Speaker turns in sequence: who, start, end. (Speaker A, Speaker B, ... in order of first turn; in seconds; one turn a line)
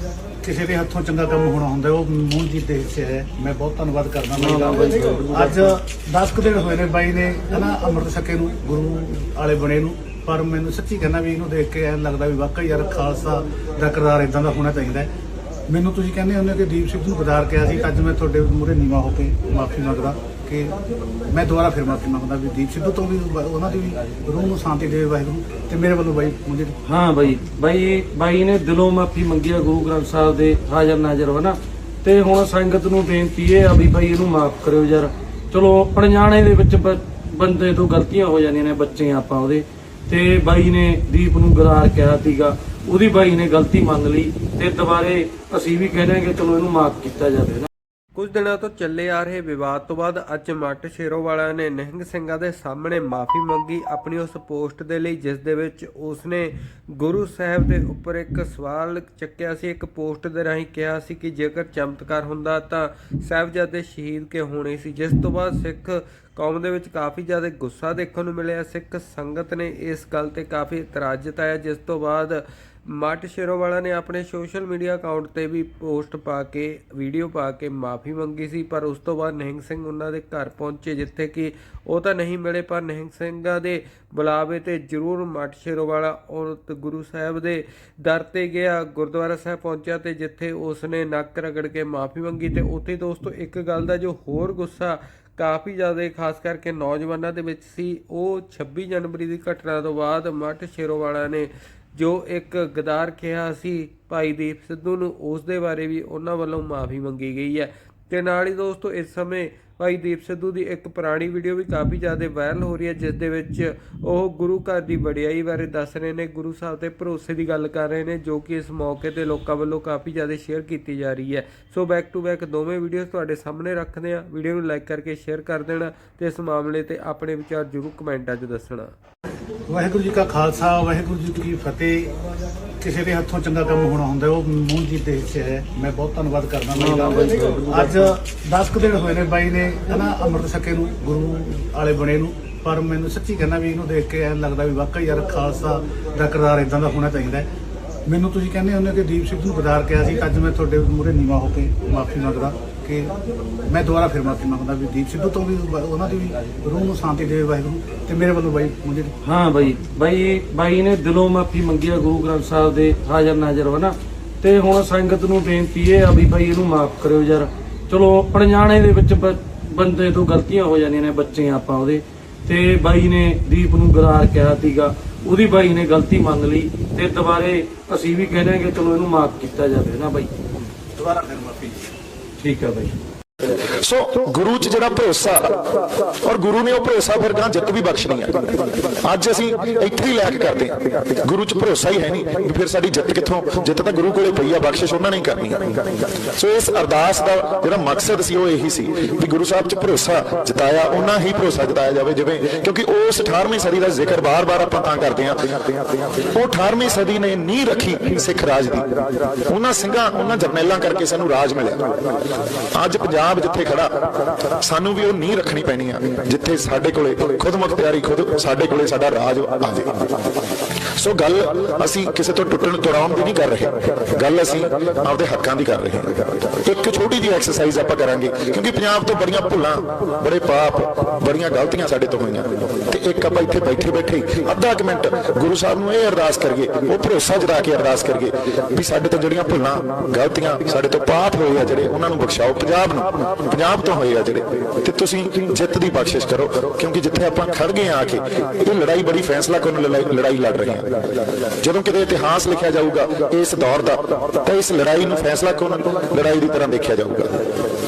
Speaker A: 0.4-15.1
Speaker B: 4.4-5.7
Speaker A: 15.7-20.8
Speaker A: 21.3-26.8
Speaker B: 26.9-47.7
Speaker C: 48.2-128.9
Speaker A: 129.7-132.1
Speaker A: 132.8-147.5
Speaker B: 136.7-138.1
Speaker A: 148.1-153.1
Speaker A: 153.7-159.1
Speaker B: 159.2-180.3
Speaker A: 181.0-181.8
Speaker B: 182.4-183.0
Speaker D: 183.4-212.0
Speaker D: 212.7-219.9
Speaker D: 221.0-257.5